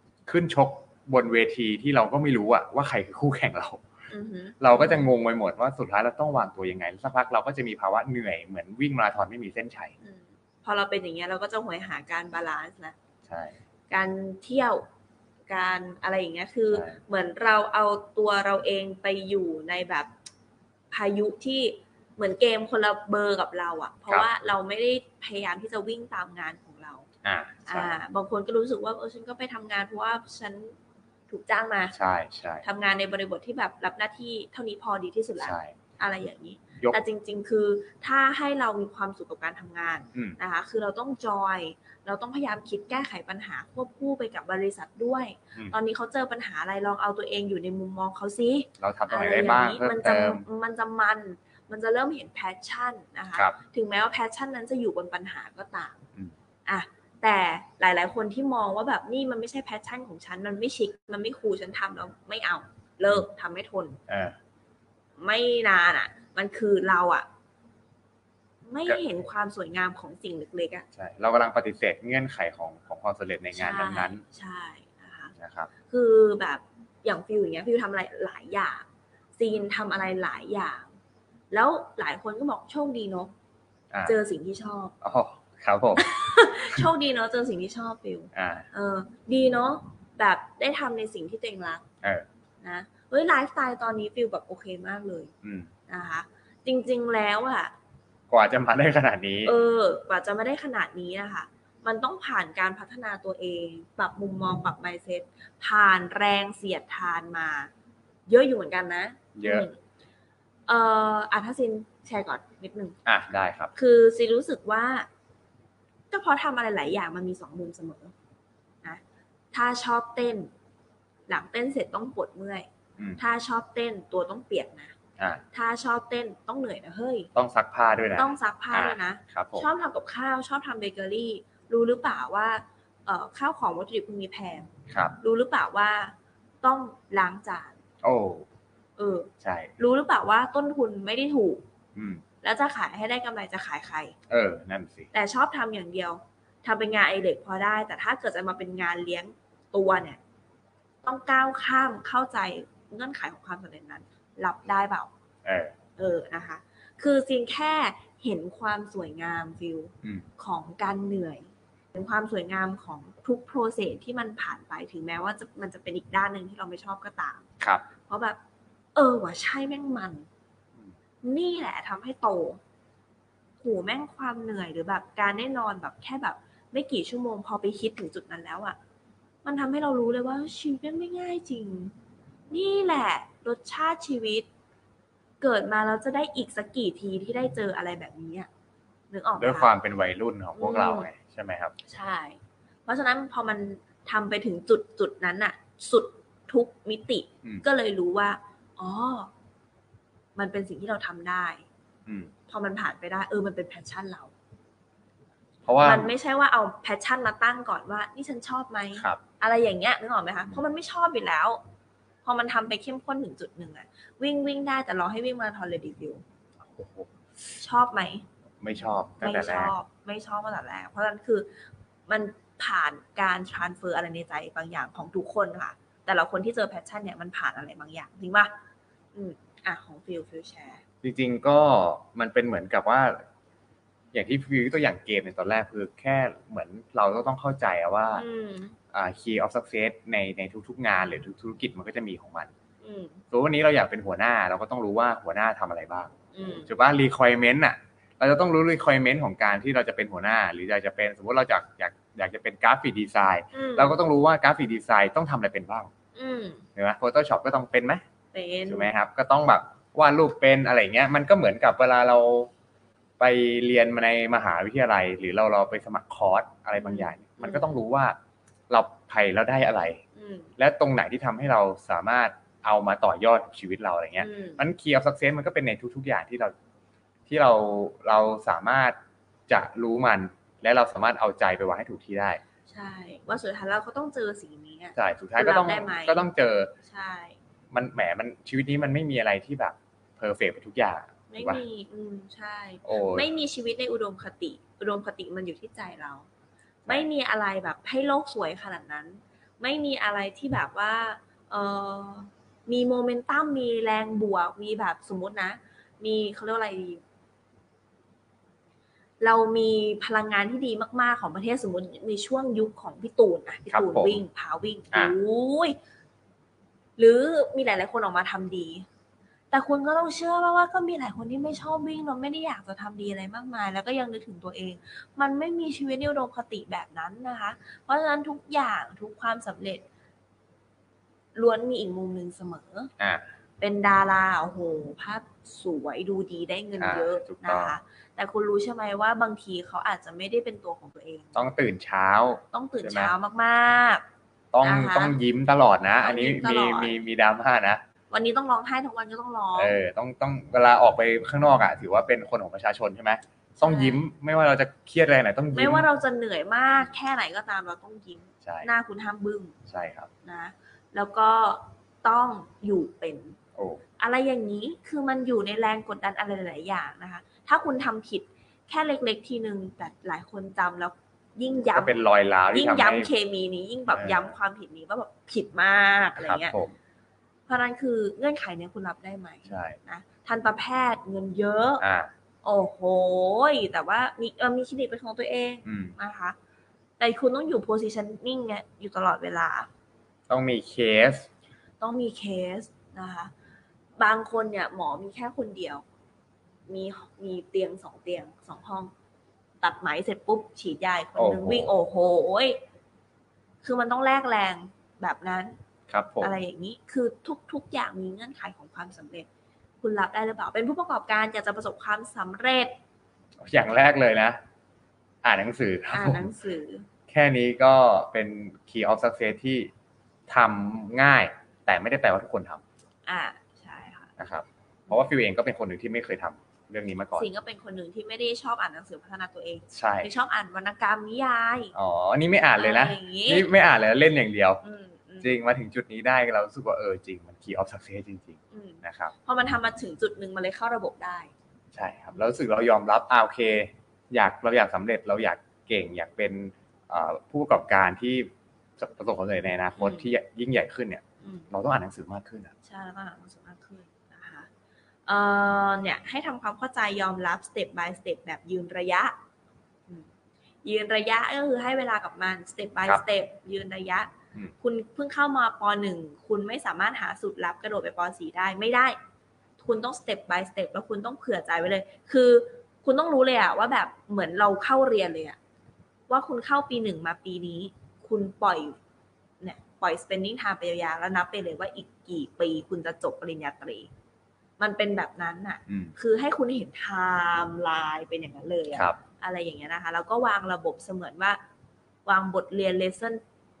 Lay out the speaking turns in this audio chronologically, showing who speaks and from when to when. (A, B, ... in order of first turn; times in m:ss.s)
0:00.2-0:03.8 A
0:04.1-0:05.1 B
0:04.6-0:09.9 A
0:10.0-0:12.9 B
0:13.2-0:13.6 A
0:13.9-0:14.8 B
0:15.5-0:20.1 B
0:16.7-0:17.0 A
0:20.9-0:27.1 B
0:27.2-0:28.0 A
0:27.6-0:30.7 B
0:31.3-0:31.9 B
0:31.9-0:32.6 A
0:32.6-0:56.0 B
0:35.4-0:35.7 A
0:48.8-0:50.4 A
0:56.6-1:04.0 B
1:04.1-1:04.4 A
1:05.2-1:07.3 B
1:08.6-1:10.8 B
1:10.9-1:14.2 A
1:13.5-1:15.3 B
1:15.4-1:15.7 A
1:15.8-1:18.8 B
1:19.4-1:20.9 B
1:21.5-1:23.3 B
1:24.0-1:24.9 B
1:25.0-1:26.1 A
1:26.0-1:31.8 B
1:28.3-1:28.7 A
1:32.6-1:35.3 B
1:35.4-1:35.7 A
1:35.9-1:37.7 B
1:38.3-1:39.5 A
1:39.4-1:47.7 B
1:48.3-1:49.8 B
1:49.4-1:49.7 A
1:50.7-1:53.0 B
1:53.0-1:53.7 A
1:53.7-1:55.1 B
1:56.1-1:58.1 B
1:59.5-2:00.5 B
2:01.3-2:04.9 B
2:05.2-2:05.4 A
2:05.5-2:07.3 B
2:07.3-2:09.7 A
2:08.1-2:17.7 B
2:14.9-2:15.2 A
2:18.0-2:18.5 A
2:19.0-2:21.6 B
2:19.4-2:19.7 A
2:21.9-2:22.2 A
2:22.4-2:24.1 B
2:24.3-2:25.1 A
2:25.1-2:30.2 B
2:31.0-2:35.1 B
2:35.4-2:35.7 A
2:36.0-2:47.4 B
2:48.0-2:48.4 B
2:48.9-2:50.2 B
2:51.2-2:52.6 B
2:53.6-2:58.8 B
2:59.4-3:01.9 B
3:02.5-3:04.5 B
3:05.4-3:08.5 B
3:09.1-3:09.7 B
3:09.4-3:11.7 A
3:10.6-3:11.1 B
3:11.8-3:19.3 B
3:20.4-3:21.6 B
3:22.0-3:22.3 A
3:22.5-3:24.3 B
3:25.6-3:26.1 A
3:25.8-3:31.6 B
3:29.0-3:29.2 A
3:32.2-3:36.2 B
3:36.6-3:37.1 A
3:37.6-3:38.2 B
3:38.6-3:39.7 A
3:39.2-3:41.5 B
3:42.1-3:48.5 B
3:49.1-3:50.8 B
3:51.0-3:53.2 A
3:54.1-3:58.2 A
3:58.1-3:58.8 B
3:58.9-4:02.5 A
4:02.8-4:03.2 B
4:03.3-4:06.1 A
4:06.3-4:06.7 B
4:06.6-4:15.9 A
4:13.5-4:14.0 B
4:16.2-4:16.6 B
4:16.8-4:18.0 A
4:18.3-4:18.9 B
4:18.7-4:22.5 A
4:23.2-4:28.2 A
4:26.8-4:27.7 B
4:28.7-4:30.0 A
4:30.2-4:30.5 B
4:30.6-4:36.5 A
4:34.2-4:34.6 B
4:37.3-4:39.0 A
4:39.5-4:42.4 A
4:42.7-4:46.2 B
4:45.0-4:46.7 A
4:46.8-4:47.4 B
4:47.7-4:51.6 A
4:51.3-4:56.3 B
4:52.8-4:53.3 A
4:56.8-5:07.0 B
5:09.2-5:15.8 B
5:13.7-5:14.2 A
5:17.0-5:18.8 B
5:19.5-5:29.8 B
5:31.3-5:32.9 B
5:33.0-5:33.2 A
5:33.6-5:41.4 B
5:36.8-5:37.8 A
5:41.3-5:43.1 A
5:42.5-5:44.0 B
5:44.5-5:47.8 A
5:44.6-5:45.2 B
5:46.0-5:47.0 B
5:48.1-5:49.8 B
5:49.6-5:55.9 A
5:53.6-5:54.0 B
5:55.5-5:59.6 B
5:58.4-5:58.7 A
5:59.6-6:00.1 A
6:00.2-6:03.4 B
6:03.6-6:03.8 A
6:04.0-6:12.0 B
6:11.7-6:13.1 A
6:12.5-6:16.6 B
6:13.9-6:14.3 A
6:16.2-6:16.7 A
6:17.5-6:21.8 B
6:19.5-6:19.8 A
6:21.8-6:22.1 A
6:22.4-6:26.4 B
6:25.6-6:26.0 A
6:27.0-6:29.7 B
6:30.3-6:31.3 A
6:31.8-6:33.3 B
6:34.0-6:35.8 B
6:36.7-6:38.9 B
6:39.6-6:42.6 B
6:41.2-6:41.7 A
6:43.6-6:45.6 B
6:45.9-6:46.3 A
6:46.2-6:49.3 B
6:49.8-6:52.7 B
6:53.4-6:54.4 A
6:55.2-6:56.3 A
6:55.9-6:56.9 B
6:57.1-6:59.7 A
7:00.3-7:02.6 A
7:03.1-7:04.1 B
7:04.2-7:07.3 A
7:07.2-7:11.7 B
7:09.7-7:10.1 A
7:11.7-7:14.6 A
7:12.6-7:13.5 B
7:14.6-7:15.3 B
7:15.2-7:19.1 A
7:18.5-7:21.3 B
7:21.7-7:32.5 A
7:29.8-7:30.1 B
7:31.2-7:31.5 B
7:32.6-7:34.5 B
7:35.1-7:39.2 B
7:40.6-7:49.0 B
7:49.6-7:55.4 B
7:56.1-7:58.8 B
7:59.4-8:03.9 B
8:04.6-8:11.4 B
8:05.7-8:05.9 A
8:12.0-8:13.2 B